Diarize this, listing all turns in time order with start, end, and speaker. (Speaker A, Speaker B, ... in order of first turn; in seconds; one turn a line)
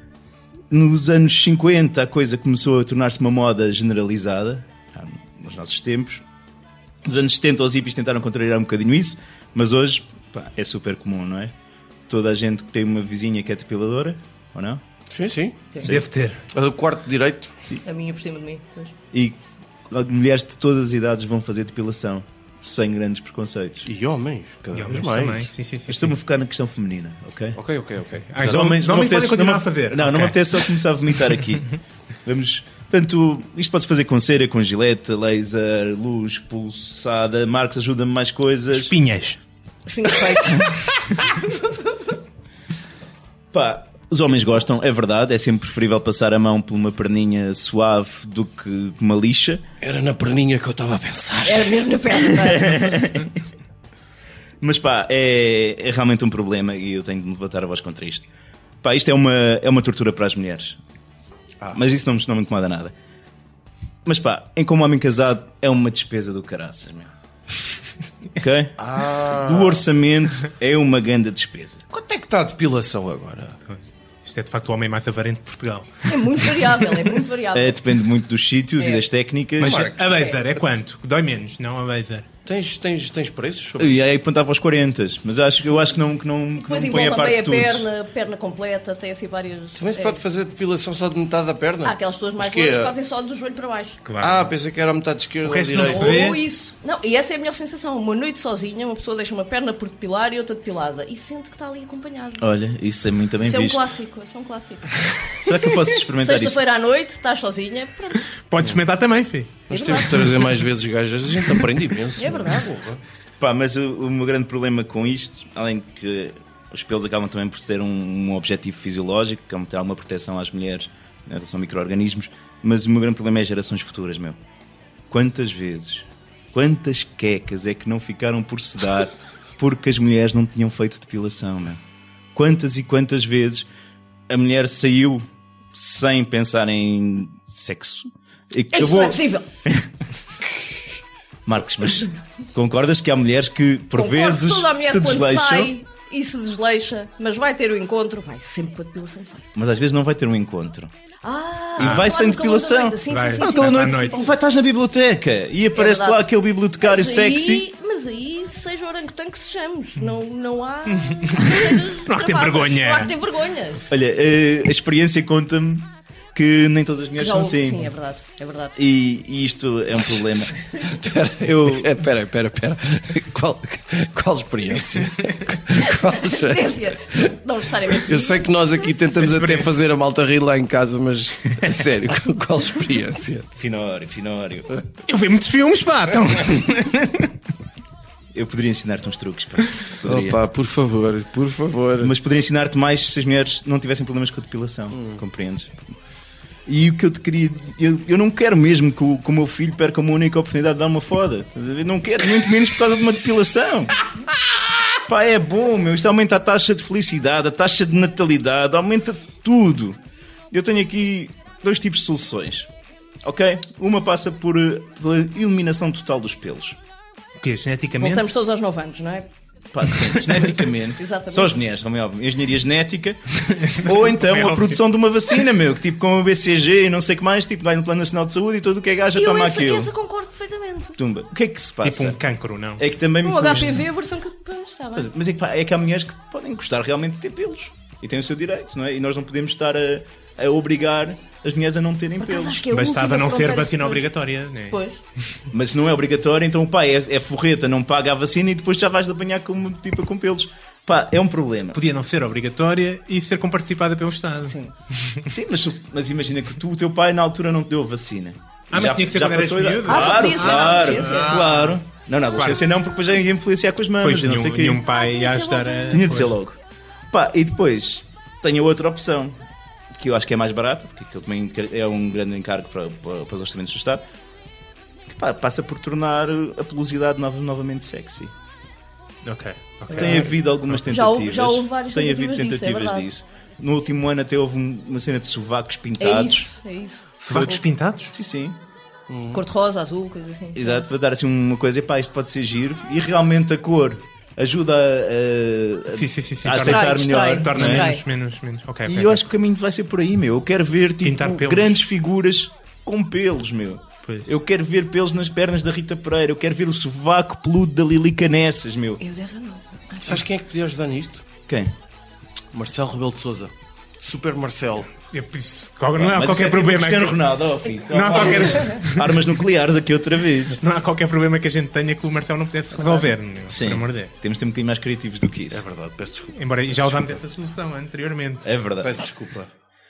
Speaker A: 0.7-6.2
Speaker A: 7.0-11.5
Speaker A: 12.1-14.8
Speaker B: 15.1-15.7
Speaker A: 15.8-16.1
Speaker C: 15.8-16.4
Speaker B: 16.5-17.5
Speaker D: 17.8-18.9
Speaker A: 19.1-23.9
Speaker B: 23.9-25.5
Speaker C: 24.7-26.1
Speaker A: 25.9-27.6
Speaker B: 27.6-28.7
Speaker C: 28.3-30.6
Speaker A: 28.4-31.7
Speaker A: 32.2-38.9
Speaker C: 38.7-39.4
Speaker D: 39.9-42.1
Speaker A: 43.5-49.6
Speaker B: 49.8-51.8
Speaker D: 51.4-52.9
Speaker A: 52.3-53.4
Speaker A: 54.6-58.3
Speaker A: 58.8-60.8
Speaker A: 61.7-62.9
Speaker A: 64.0-67.1
Speaker A: 68.4-71.8
Speaker B: 68.8-69.8
Speaker B: 71.9-73.6
Speaker C: 73.7-77.0
Speaker D: 76.0-77.8
Speaker A: 77.5-80.0
Speaker D: 78.8-79.0
Speaker C: 79.6-82.3
Speaker B: 79.6-80.3
Speaker B: 82.5-84.0
Speaker A: 83.8-87.9
Speaker D: 86.5-90.2
Speaker B: 89.8-92.9
Speaker D: 91.8-94.0
Speaker C: 94.0-94.5
Speaker B: 94.2-96.3
Speaker C: 95.4-96.4
Speaker D: 95.8-102.5
Speaker A: 102.4-104.0
Speaker D: 103.4-108.2
Speaker A: 105.3-106.6
Speaker C: 108.4-109.5
Speaker B: 109.7-113.0
Speaker D: 109.7-110.4
Speaker D: 112.2-112.8
Speaker A: 113.4-124.4
Speaker A: 125.1-131.8
Speaker A: 132.3-133.7
Speaker A: 134.3-139.9
Speaker D: 138.7-139.5
Speaker A: 141.4-145.7
Speaker D: 143.9-149.5
Speaker A: 149.5-150.9
Speaker D: 151.2-154.3
Speaker A: 151.8-157.6
Speaker C: 151.8-152.1
Speaker C: 153.1-154.2
Speaker D: 155.7-163.8
Speaker C: 160.9-163.2
Speaker A: 163.9-167.9
Speaker D: 167.2-168.8
Speaker A: 168.8-170.7
Speaker B: 170.8-177.3
Speaker A: 171.4-172.0
Speaker D: 175.8-178.9
Speaker B: 177.9-183.5
Speaker C: 179.2-179.7
Speaker A: 183.5-184.7
Speaker C: 185.1-187.4
Speaker A: 188.3-190.4
Speaker B: 190.0-192.1
Speaker A: 192.0-195.8
Speaker A: 196.7-203.9
Speaker A: 204.9-210.0
Speaker A: 210.5-212.7
Speaker A: 213.2-216.8
Speaker C: 217.4-218.3
Speaker D: 218.0-219.3
Speaker A: 219.7-229.9
Speaker C: 220.2-220.5
Speaker D: 221.0-221.6
Speaker C: 223.5-224.8
Speaker D: 229.1-231.0
Speaker A: 231.0-232.2
Speaker C: 231.8-232.8
Speaker A: 232.8-233.8
Speaker D: 233.2-235.1
Speaker C: 233.4-233.8
Speaker A: 234.9-242.6
Speaker D: 242.2-244.0
Speaker C: 242.7-244.8
Speaker D: 244.7-245.0
Speaker A: 245.5-251.8
Speaker C: 251.7-255.3
Speaker D: 254.4-254.7
Speaker A: 255.2-264.8
Speaker C: 258.7-261.8
Speaker D: 259.9-261.4
Speaker C: 262.4-262.6
Speaker C: 264.0-266.4
Speaker D: 264.8-266.1
Speaker A: 265.9-266.6
Speaker A: 267.1-269.4
Speaker A: 269.9-274.0
Speaker A: 275.1-278.3
Speaker C: 279.2-280.8
Speaker D: 279.9-280.2
Speaker A: 279.9-286.5
Speaker D: 280.9-283.1
Speaker D: 286.0-287.6
Speaker C: 287.2-288.1
Speaker A: 288.1-288.6
Speaker B: 289.1-289.4
Speaker D: 289.3-290.8
Speaker A: 290.5-297.9
Speaker C: 295.9-299.2
Speaker D: 296.5-298.0
Speaker A: 298.9-309.0
Speaker C: 301.0-301.8
Speaker D: 309.0-310.2
Speaker B: 310.0-311.2
Speaker A: 311.5-311.7
Speaker B: 312.5-314.9
Speaker C: 315.1-317.2
Speaker A: 315.9-320.6
Speaker C: 317.9-319.2
Speaker C: 320.6-324.1
Speaker A: 323.5-325.6
Speaker B: 325.5-327.1
Speaker C: 326.3-328.5
Speaker A: 328.4-329.0
Speaker B: 328.8-329.5